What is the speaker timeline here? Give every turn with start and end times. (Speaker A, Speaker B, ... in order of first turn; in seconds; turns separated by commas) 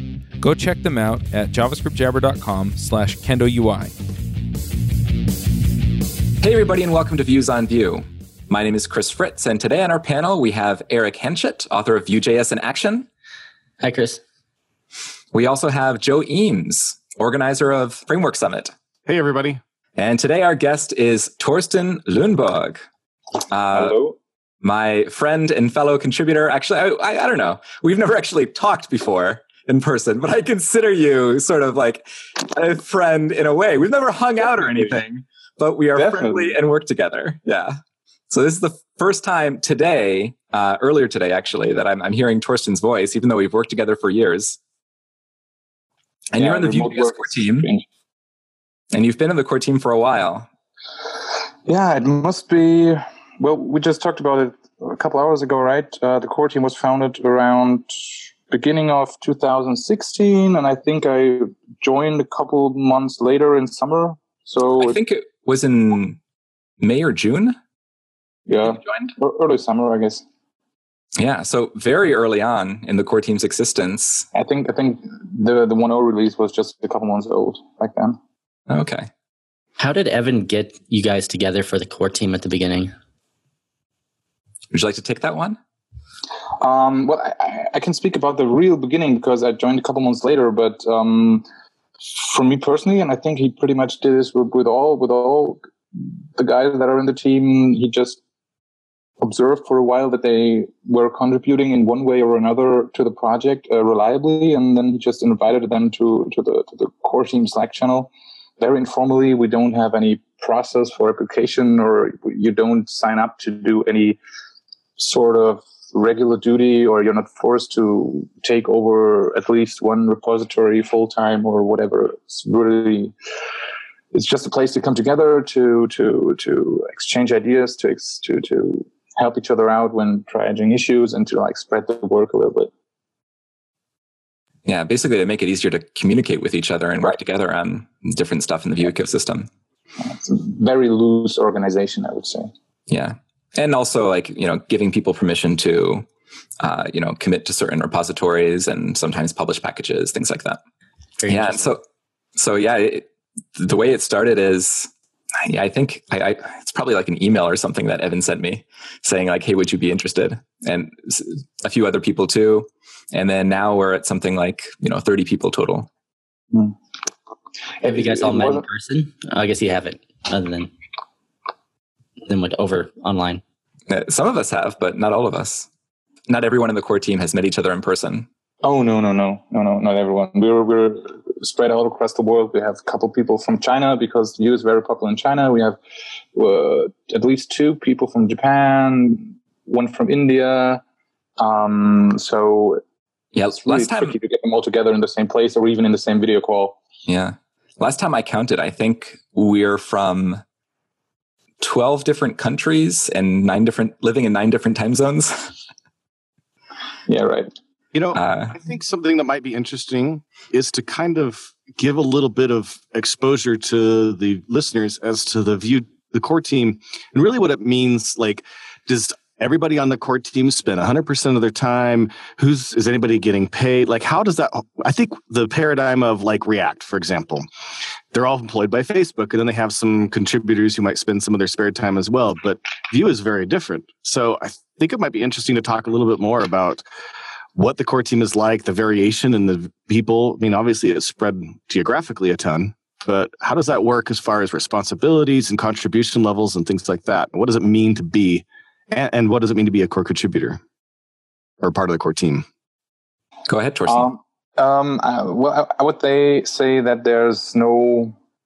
Speaker A: 0.4-3.9, Speaker B: 6.4-13.1, Speaker C: 13.8-14.2, Speaker B: 15.3-18.7, Speaker D: 19.1-19.6, Speaker B: 19.9-22.8, Speaker B: 23.5-23.9, Speaker E: 23.7-24.1, Speaker B: 24.6-37.7, Speaker E: 34.5-34.9, Speaker E: 35.9-36.5, Speaker B: 38.3-44.6, Speaker B: 46.3-47.7, Speaker E: 46.3-47.9, Speaker B: 48.9-50.5, Speaker E: 51.6-65.0, Speaker B: 64.8-66.2, Speaker B: 66.8-67.6, Speaker E: 68.5-70.2, Speaker B: 71.2-74.3, Speaker E: 74.3-78.2, Speaker B: 78.7-79.1, Speaker C: 79.8-82.9, Speaker B: 84.7-85.6, Speaker E: 86.6-91.5, Speaker E: 92.2-95.6, Speaker E: 96.3-98.2, Speaker E: 99.2-114.2, Speaker E: 115.0-123.1, Speaker E: 124.1-132.7, Speaker B: 134.7-139.5, Speaker E: 140.0-142.5, Speaker B: 142.9-146.1, Speaker B: 146.6-150.6, Speaker C: 151.2-151.7, Speaker B: 151.3-151.8, Speaker B: 152.3-154.9, Speaker B: 155.4-165.9, Speaker E: 167.8-168.6, Speaker C: 167.8-170.7, Speaker C: 172.3-173.4, Speaker B: 173.9-175.7, Speaker B: 176.3-178.3, Speaker E: 178.6-185.8, Speaker E: 186.3-190.8, Speaker E: 191.4-192.8, Speaker B: 193.3-194.1, Speaker E: 193.6-196.8, Speaker B: 197.1-200.4, Speaker B: 201.6-205.5, Speaker E: 207.1-207.5, Speaker D: 207.9-227.4, Speaker B: 208.1-208.5, Speaker D: 228.1-236.8, Speaker D: 237.5-250.6, Speaker D: 251.6-252.4, Speaker B: 253.5-254.1, Speaker E: 253.9-258.1